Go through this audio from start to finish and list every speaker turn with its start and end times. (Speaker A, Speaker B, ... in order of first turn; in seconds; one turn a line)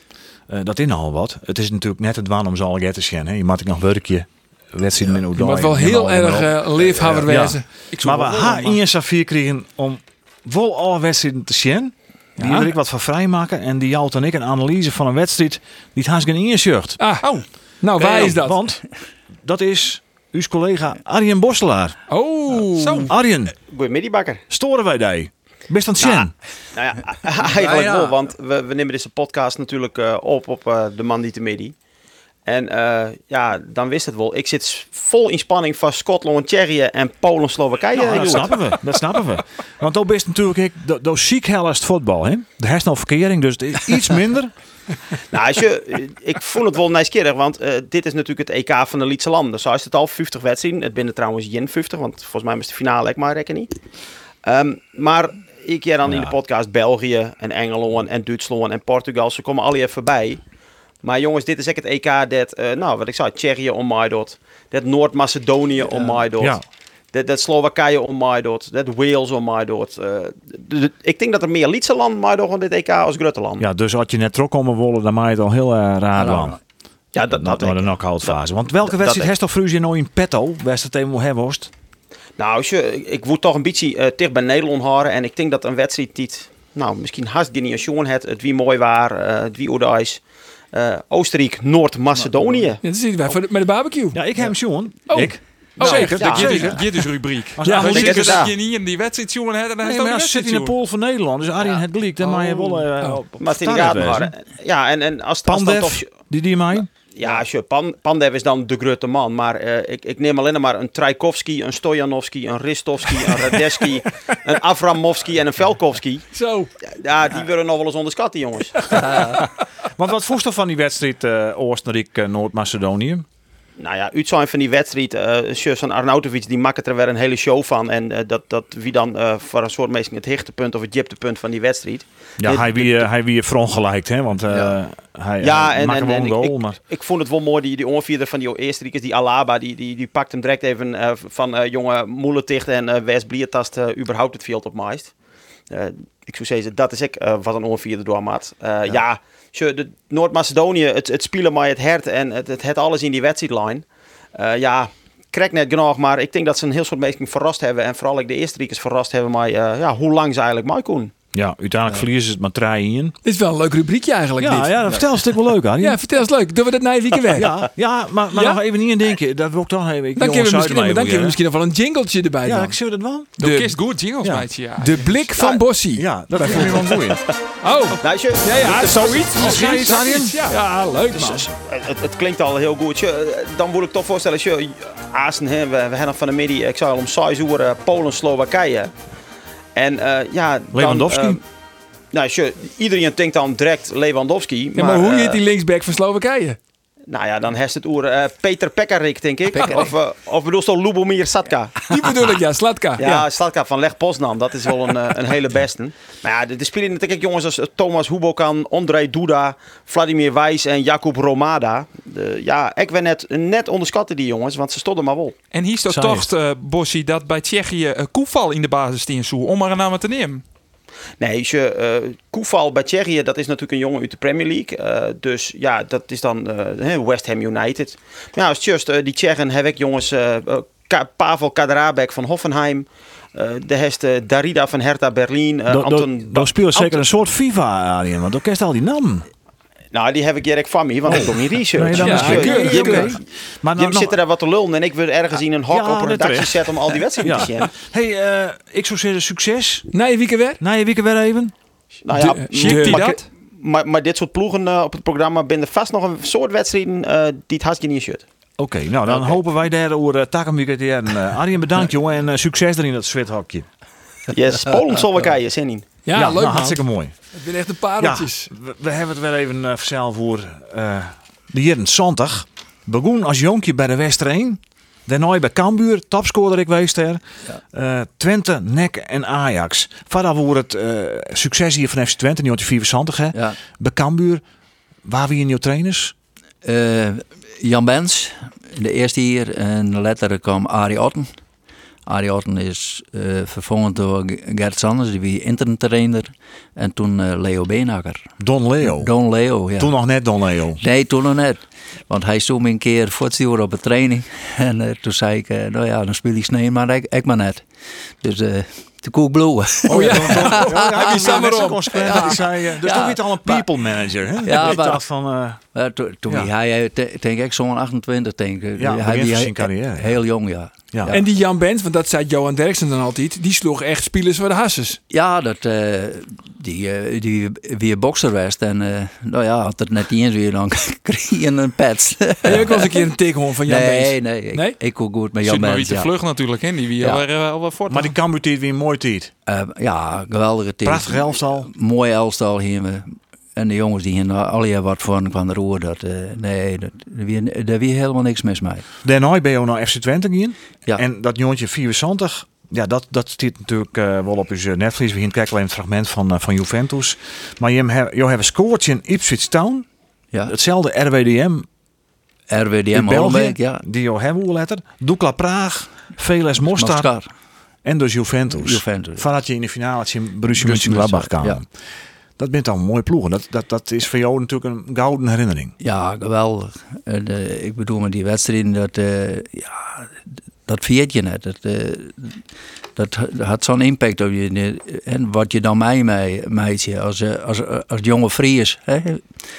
Speaker A: 0.5-17.0
Speaker B: 5.3-7.7
Speaker C: 7.9-8.7
Speaker B: 12.4-12.7
Speaker B: 17.0-18.6
Speaker A: 17.9-18.8
Speaker A: 19.4-22.0
Speaker B: 22.1-23.1
Speaker C: 22.8-23.1
Speaker A: 23.1-23.5
Speaker D: 23.7-24.4
Speaker A: 24.5-26.3
Speaker D: 26.0-31.7
Speaker D: 32.4-38.6
Speaker A: 37.9-44.5
Speaker D: 45.3-53.7
Speaker D: 54.4-60.4
Speaker A: 56.0-56.3
Speaker D: 61.0-66.6
Speaker E: 65.9-66.2
Speaker D: 67.1-73.6
Speaker A: 73.6-76.6
Speaker E: 76.1-76.6
Speaker D: 77.1-79.3
Speaker A: 77.3-81.7
Speaker D: 82.4-90.2
Speaker D: 90.7-92.8
Speaker B: 92.8-94.2
Speaker A: 94.1-96.8
Speaker B: 95.1-96.8
Speaker C: 95.8-100.7
Speaker D: 96.2-96.6
Speaker A: 97.5-98.4
Speaker B: 97.6-98.1
Speaker D: 97.8-98.5
Speaker A: 99.8-104.3
Speaker D: 103.4-106.1
Speaker A: 105.4-106.9
Speaker D: 107.1-116.2
Speaker B: 116.3-116.7
Speaker D: 116.8-119.0
Speaker B: 118.9-119.5
Speaker A: 119.9-123.2
Speaker D: 123.8-133.0
Speaker A: 132.4-136.8
Speaker D: 135.4-145.1
Speaker D: 145.7-161.1
Speaker A: 161.3-163.2
Speaker B: 163.2-165.0
Speaker A: 164.4-166.0
Speaker B: 165.8-167.5
Speaker A: 167.3-171.4
Speaker B: 170.2-172.8
Speaker A: 172.4-173.4
Speaker B: 173.4-173.8
Speaker C: 173.4-175.3
Speaker A: 174.2-174.5
Speaker B: 174.8-176.9
Speaker D: 175.3-175.6
Speaker A: 175.9-177.2
Speaker B: 177.6-181.5
Speaker D: 178.0-179.4
Speaker A: 179.2-180.6
Speaker A: 181.1-181.4
Speaker D: 181.6-188.9
Speaker D: 189.7-191.4
Speaker A: 190.7-191.4
Speaker D: 192.1-195.4
Speaker B: 194.7-196.6
Speaker D: 197.1-201.8
Speaker B: 199.6-199.9
Speaker B: 201.8-203.2
Speaker D: 203.0-215.3
Speaker C: 215.5-220.4
Speaker A: 215.9-216.3
Speaker D: 221.2-237.0
Speaker A: 235.7-239.3
Speaker D: 239.9-243.2
Speaker A: 241.1-244.2
Speaker B: 241.9-243.2
Speaker D: 243.8-247.7
Speaker A: 245.7-249.9
Speaker B: 249.9-250.6
Speaker A: 250.6-251.5
Speaker D: 252.0-258.2
Speaker B: 252.1-253.2
Speaker C: 252.5-253.2
Speaker A: 258.6-263.6
Speaker D: 259.1-259.3
Speaker D: 264.3-265.9
Speaker B: 266.0-266.8
Speaker A: 266.1-267.1
Speaker B: 267.3-268.5
Speaker A: 268.0-277.2
Speaker A: 277.7-284.4
Speaker E: 283.3-283.6
Speaker A: 285.0-286.1
Speaker E: 286.6-291.3
Speaker E: 292.1-298.3
Speaker A: 298.4-299.1
Speaker E: 298.8-299.9
Speaker A: 299.8-300.8
Speaker E: 300.8-307.6
Speaker E: 308.2-313.6
Speaker A: 309.9-315.6
Speaker B: 309.9-312.3
Speaker E: 314.4-315.0
Speaker E: 315.7-321.2
Speaker A: 318.8-320.2
Speaker A: 320.9-321.2
Speaker B: 321.1-325.0
Speaker E: 325.1-333.0
Speaker B: 332.4-334.8
Speaker E: 333.6-336.1
Speaker C: 335.4-338.1
Speaker A: 337.9-339.3
Speaker E: 339.5-348.9
Speaker A: 340.8-341.7
Speaker A: 349.0-359.9
Speaker A: 360.5-361.7
Speaker E: 362.5-363.8
Speaker A: 362.9-367.1
Speaker E: 366.7-367.3
Speaker A: 367.8-371.7
Speaker E: 368.6-369.2
Speaker E: 370.5-371.6
Speaker A: 372.4-375.7
Speaker E: 375.8-380.1
Speaker E: 380.6-382.4
Speaker E: 382.9-389.4